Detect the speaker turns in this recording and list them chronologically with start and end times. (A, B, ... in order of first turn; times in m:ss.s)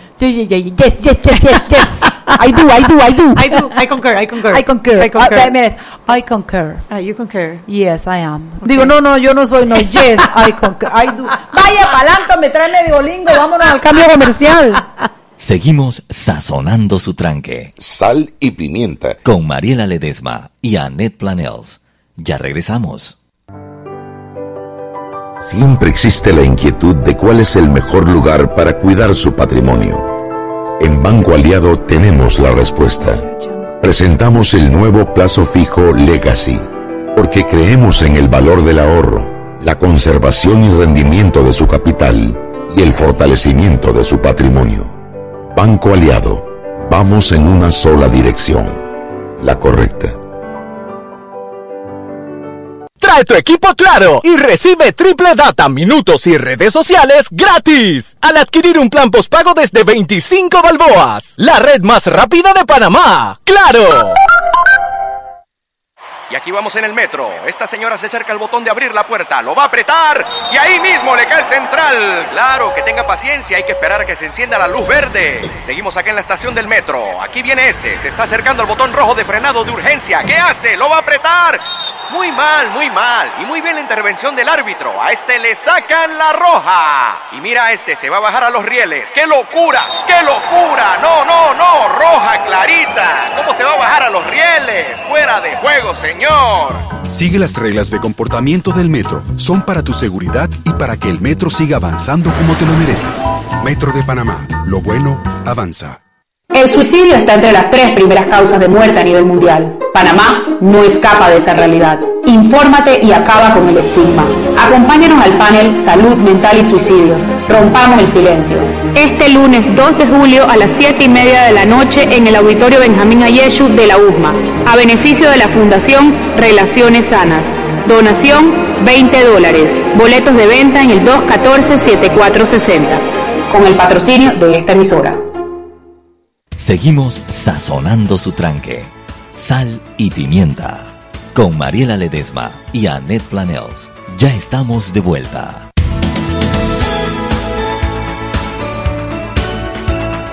0:00.2-0:03.7 A
0:03.3-0:05.5 B
0:04.5-0:06.8 A
0:06.9-0:07.6 B
0:07.7-0:14.8 A
0:08.6-0:08.9 B
0:15.4-0:17.7 C
0:17.8-0:19.2 D
0:19.3-0:23.2 C
0:25.4-0:30.1 D
0:30.8-0:33.3 D
0:33.8-0:44.9 D
0:45.5-0:48.8 D
0:49.4-0:50.2 D
0:53.0-1:04.2 E
1:06.3-1:36.9 F
1:37.1-1:46.0 G
1:46.5-2:15.2 H
2:16.6-2:25.7 C